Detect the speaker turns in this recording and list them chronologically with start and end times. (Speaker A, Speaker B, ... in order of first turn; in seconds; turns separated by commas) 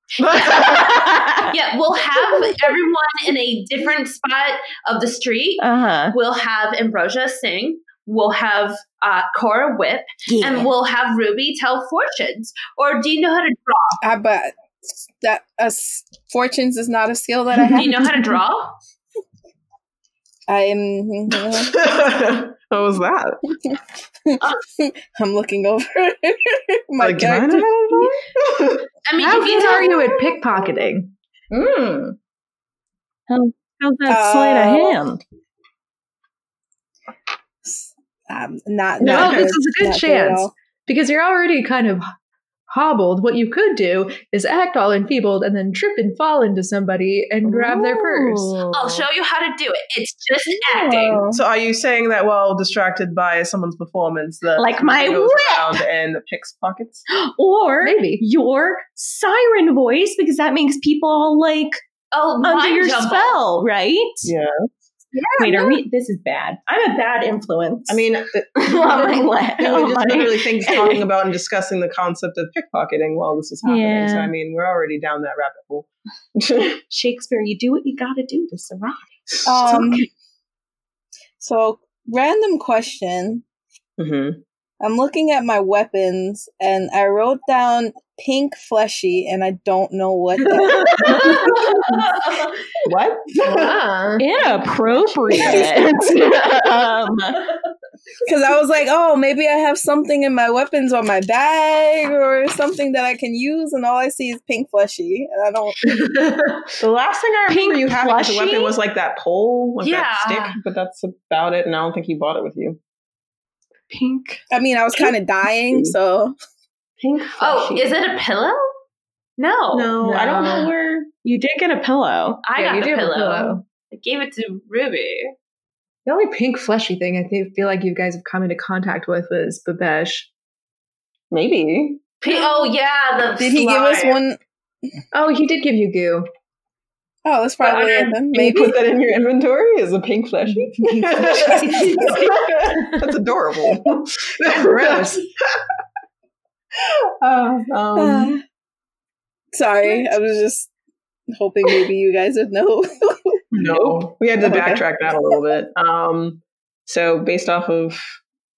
Speaker A: 0.2-1.2, Speaker B: 0.4-1.5, Speaker C: 1.5-14.0, Speaker B: 5.6-6.1, Speaker B: 10.3-10.7, Speaker D: 14.0-18.4, Speaker C: 17.7-18.8, Speaker D: 20.5-21.8, Speaker A: 21.5-23.4, Speaker D: 23.6-28.2, Speaker A: 27.0-28.8, Speaker C: 29.0-30.4, Speaker E: 29.2-31.1, Speaker B: 31.5-32.0, Speaker B: 33.3-35.2, Speaker D: 34.1-35.1, Speaker D: 37.6-40.5, Speaker E: 39.0-42.0, Speaker E: 42.7-48.5, Speaker B: 47.4-49.1, Speaker C: 48.7-51.2, Speaker D: 50.5-51.4, Speaker A: 51.3-57.0, Speaker B: 54.6-55.8, Speaker B: 57.1-61.8, Speaker E: 57.8-58.2, Speaker C: 62.1-63.4, Speaker B: 62.4-64.3, Speaker A: 64.2-64.5, Speaker E: 65.1-65.8, Speaker B: 65.4-71.0, Speaker A: 67.9-76.8, Speaker B: 73.6-74.3, Speaker B: 76.9-79.1, Speaker D: 79.5-80.1, Speaker B: 79.6-80.0, Speaker D: 81.4-83.4, Speaker A: 84.0-84.4, Speaker D: 84.8-91.5, Speaker E: 90.9-91.3, Speaker A: 92.8-93.8, Speaker E: 93.4-94.3, Speaker B: 94.2-97.4, Speaker D: 95.3-96.2, Speaker D: 98.2-106.0, Speaker E: 106.0-106.5, Speaker A: 106.8-112.8, Speaker B: 107.5-108.8, Speaker C: 109.8-110.5, Speaker B: 113.9-114.4, Speaker D: 114.5-116.3, Speaker A: 115.7-116.0, Speaker A: 117.0-118.0, Speaker C: 117.4-118.6, Speaker C: 119.4-120.6, Speaker A: 119.7-121.1, Speaker E: 120.0-120.6, Speaker B: 121.2-122.4, Speaker C: 122.4-125.3, Speaker E: 122.5-123.6, Speaker E: 126.0-130.3, Speaker A: 131.3-132.0, Speaker C: 132.2-134.2, Speaker D: 133.3-134.4, Speaker E: 135.1-136.3, Speaker D: 137.2-138.8, Speaker C: 137.6-138.2, Speaker A: 138.3-145.3, Speaker E: 140.8-142.2, Speaker C: 141.8-142.2, Speaker E: 144.4-145.2, Speaker A: 147.2-148.3, Speaker D: 147.9-148.4, Speaker D: 149.5-150.7, Speaker D: 151.3-154.8, Speaker A: 153.5-158.2